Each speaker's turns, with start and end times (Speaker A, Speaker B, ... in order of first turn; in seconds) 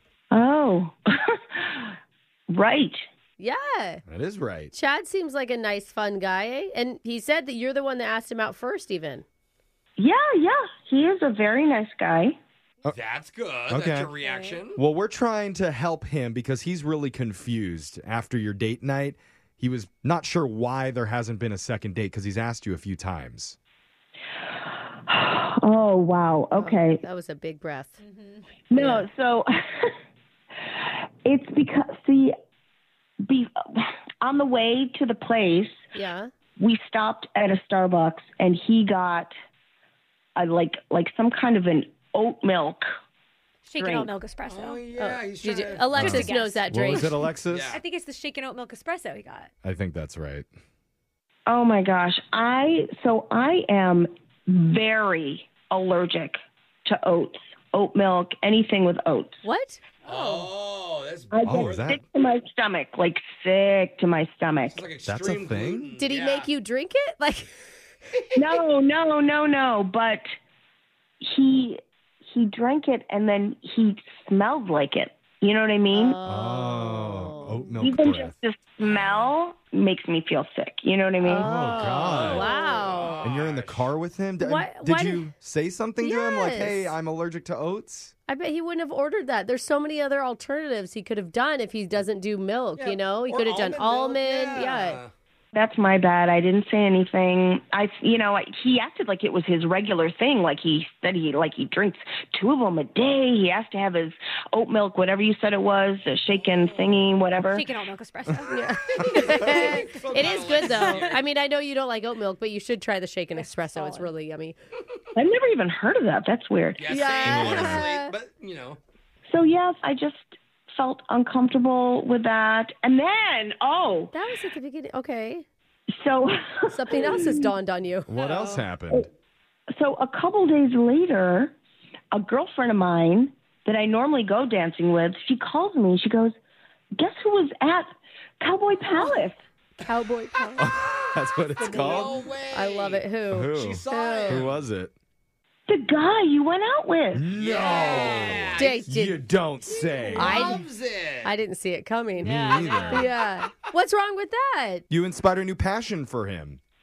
Speaker A: 0.3-2.0, 2.5-3.0, 10.0-12.4, 24.6-27.0, 28.7-29.9, 30.8-32.3, 33.2-35.8, 36.6-39.3, 40.4-42.8, 43.8-44.1, 51.5-59.4, 61.3-64.8, 68.3-70.2, 71.2-76.2, 77.8-81.8, 95.5-107.7, 115.2-117.5, 119.3-124.1, 126.0-127.5, 129.7-131.5, 132.1-136.3, 137.0-137.9, 138.4-139.4, 145.7-147.2
Speaker B: 3.4-4.0, 4.7-9.2, 26.6-28.0, 28.8-29.1, 35.9-36.3, 45.0-47.2, 59.4-60.5, 66.0-67.5, 75.9-77.7, 81.2-83.2, 84.4-85.3, 86.0-87.0, 88.3-95.0, 108.5-114.5, 116.9-118.1, 124.1-125.5, 126.7-128.1, 138.9-139.2, 139.8-140.7, 141.6-144.5, 148.3-149.2, 150.2-150.7, 151.2-152.3, 152.9-154.8
Speaker C: 4.1-4.7, 13.7-14.1, 14.8-23.6, 45.9-47.8, 49.6-50.5, 61.5-62.0, 65.1-65.9, 76.3-78.3, 81.4-82.5, 83.2-88.1, 117.2-117.9, 128.1-129.1, 140.6-142.2, 143.3-144.9, 147.1-150.4, 152.2-153.1, 154.9-156.6
Speaker D: 12.9-14.8, 44.5-46.0, 47.5-47.8, 60.0-62.0, 64.6-66.5, 78.8-79.4, 81.8-83.9, 92.8-95.1, 108.9-111.2, 116.8-118.8, 141.6-144.5, 147.3-148.9, 149.7-151.3, 152.2-153.1
Speaker E: 14.2-14.6, 28.0-28.5, 43.7-44.8, 46.0-47.1, 47.7-49.5, 106.5-106.8, 107.4-108.7, 109.2-111.0, 113.3-114.1, 128.1-128.7, 152.2-152.7